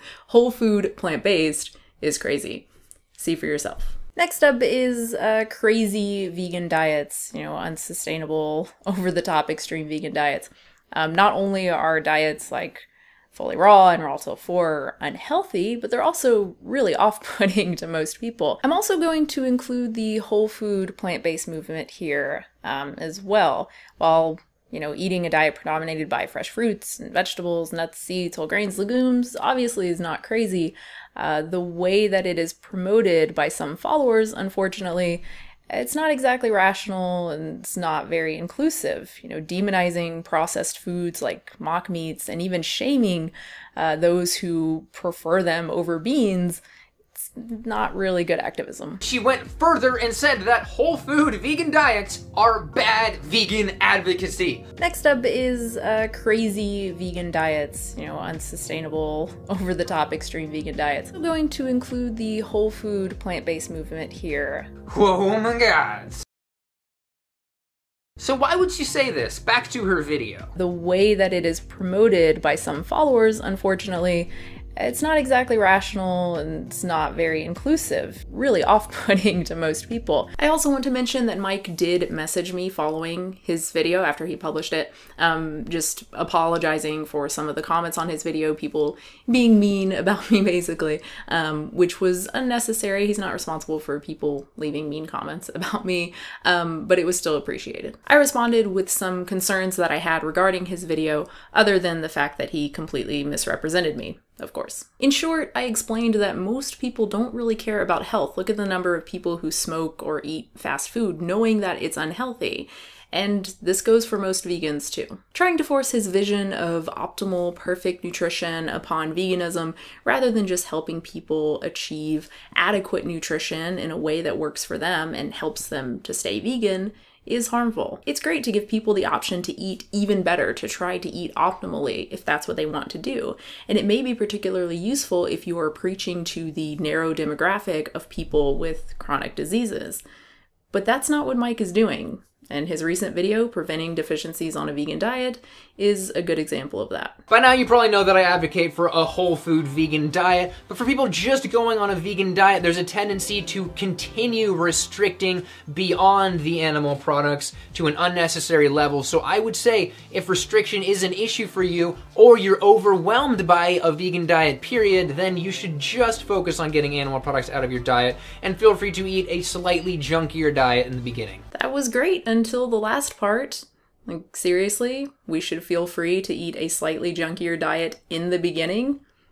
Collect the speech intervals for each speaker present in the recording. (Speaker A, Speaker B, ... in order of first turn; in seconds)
Speaker A: 0.3-2.6, 3.2-46.6, 47.1-49.0, 54.8-64.7, 70.5-140.0, 140.7-147.2, 171.5-179.0
Speaker B: 49.0-54.6, 64.9-66.2, 68.2-70.5, 147.3-171.4